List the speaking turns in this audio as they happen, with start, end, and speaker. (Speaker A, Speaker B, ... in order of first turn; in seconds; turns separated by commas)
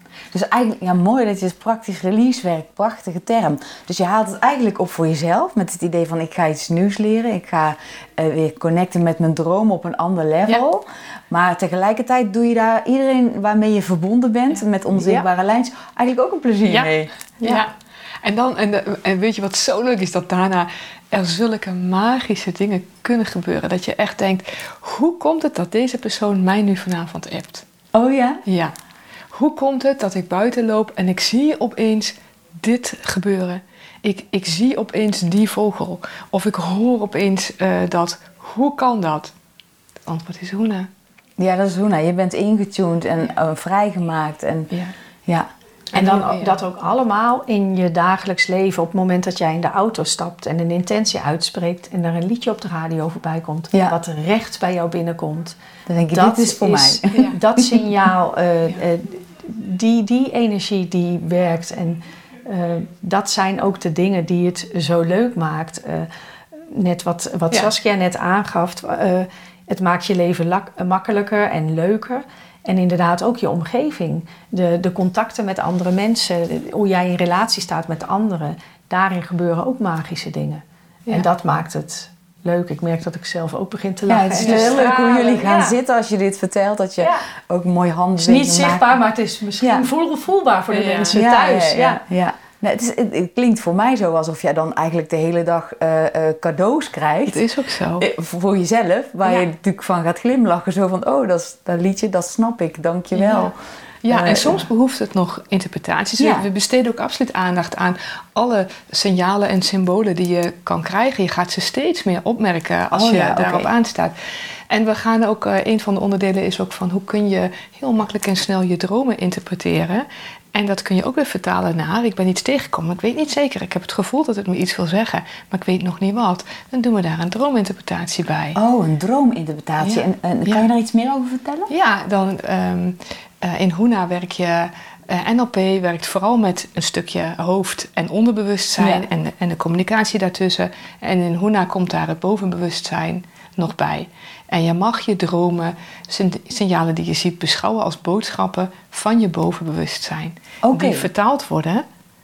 Speaker A: 0.3-17.1, Speaker B: 16.7-17.7, Speaker C: 17.4-17.7, Speaker B: 18.2-27.6, Speaker A: 27.9-28.4, Speaker B: 28.5-28.7, Speaker B: 29.3-39.3, Speaker B: 40.1-40.9, Speaker A: 41.4-44.7, Speaker B: 45.9-46.5, Speaker C: 45.9-55.6, Speaker A: 55.9-57.8, Speaker C: 56.1-66.1, Speaker C: 66.7-85.7, Speaker A: 84.1-88.9, Speaker B: 84.4-84.9, Speaker C: 88.2-92.0, Speaker A: 89.6-89.9, Speaker B: 90.7-91.2, Speaker A: 91.1-97.4, Speaker B: 97.3-98.1, Speaker A: 98.0-103.5, Speaker B: 103.1-103.5, Speaker B: 104.0-114.1, Speaker A: 104.1-104.7, Speaker A: 106.2-106.5, Speaker A: 112.9-113.7, Speaker B: 114.7-128.6, Speaker A: 128.6-131.7, Speaker B: 129.8-130.7, Speaker B: 131.7-151.8, Speaker A: 138.8-139.1, Speaker A: 150.6-151.1